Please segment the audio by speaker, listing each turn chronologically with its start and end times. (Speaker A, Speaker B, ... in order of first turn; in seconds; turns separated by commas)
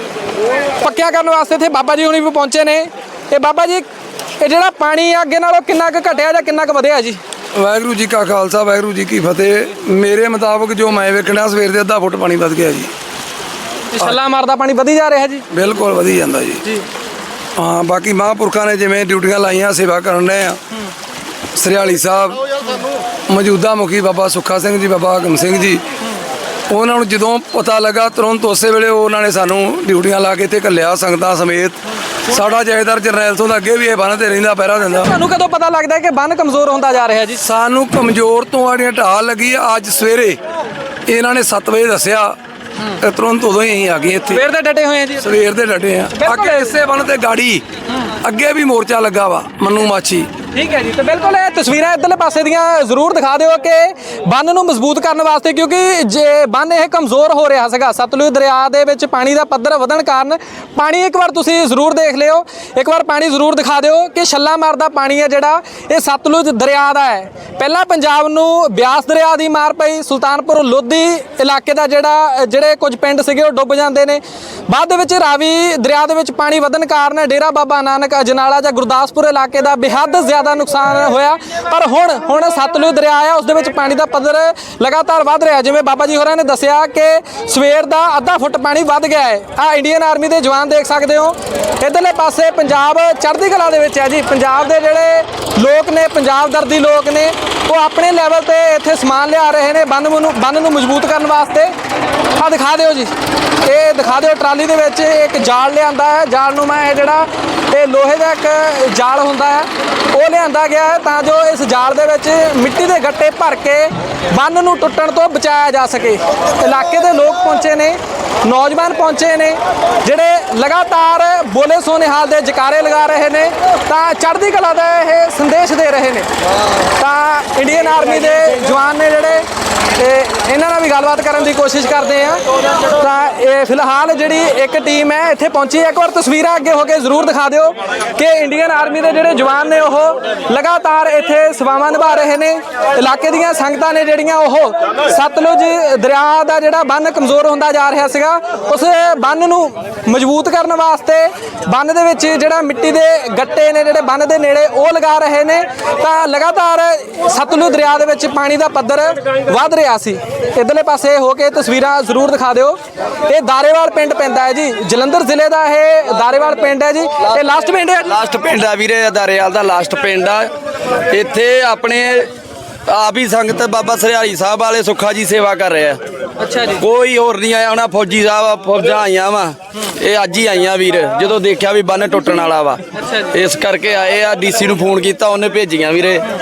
Speaker A: 0.8-3.9, Speaker A: 4.4-7.2, Speaker B: 7.5-12.9, Speaker A: 13.9-15.4, Speaker B: 15.5-16.6, Speaker B: 17.6-20.6, Speaker B: 21.6-25.8, Speaker B: 26.7-35.1, Speaker A: 35.0-37.4, Speaker B: 37.4-40.4, Speaker B: 41.1-42.4, Speaker B: 42.9-44.4, Speaker A: 44.3-45.3, Speaker B: 45.2-47.6, Speaker A: 46.1-46.8, Speaker B: 48.2-50.3, Speaker A: 50.5-101.7, Speaker A: 102.3-103.1, Speaker A: 103.6-126.3, Speaker A: 127.0-168.1, Speaker C: 168.1-170.5, Speaker C: 171.1-172.3, Speaker C: 172.9-176.0, Speaker A: 176.4-176.8, Speaker C: 176.8-182.8, Speaker A: 182.9-183.4, Speaker C: 183.3-186.2